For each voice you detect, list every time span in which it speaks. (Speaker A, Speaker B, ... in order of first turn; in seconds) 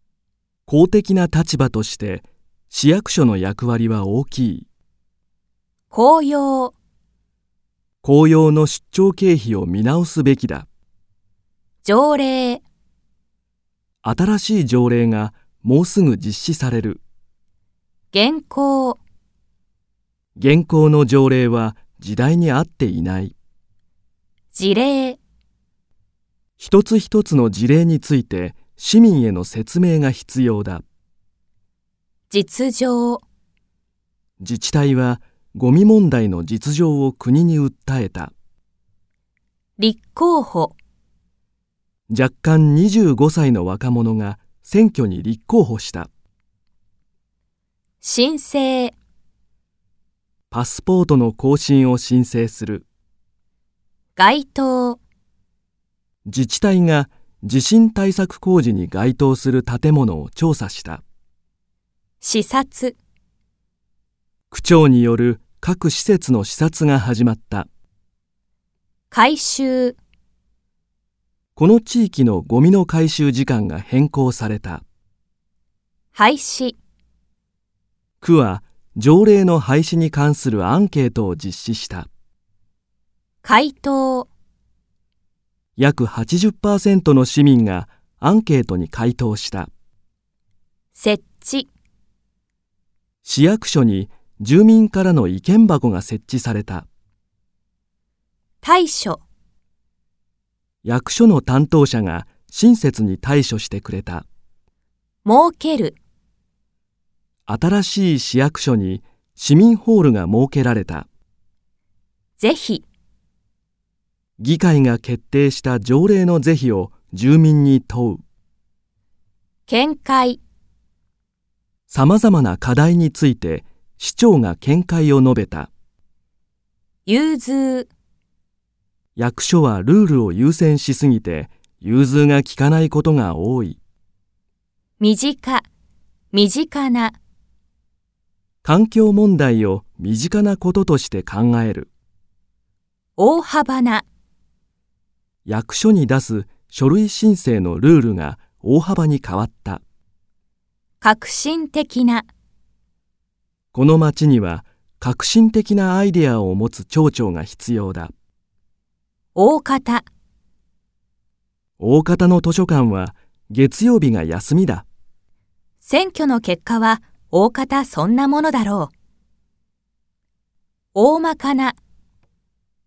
Speaker A: 0.7-4.7, 8.0-10.7, 14.0-17.0, 20.4-23.3, 26.6-30.8, 34.4-38.3, 42.1-46.1, 50.5-52.9, 56.2-61.0, 64.5-67.7, 71.6-74.8, 78.2-82.1, 85.8-89.7, 93.2-96.9, 100.8-104.3, 107.5-111.1, 114.4-118.2, 121.9-125.7, 129.2-133.8, 138.6-141.9, 145.5-149.8, 153.7-158.1, 161.8-164.9
Speaker B: 5.9-6.7, 11.8-12.6, 18.1-19.0, 24.5-25.2, 32.3-33.2, 39.8-40.8, 48.0-49.0, 54.2-55.0, 62.2-63.0, 69.1-70.0, 76.1-76.8, 83.4-84.3, 91.0-91.7, 98.6-99.2, 105.2-106.0, 112.4-112.8, 119.7-120.4, 127.1-127.9, 135.0-135.7, 136.3-137.2, 143.2-144.1, 151.0-152.3, 159.3-160.1, 165.8-168.9, 170.9-171.8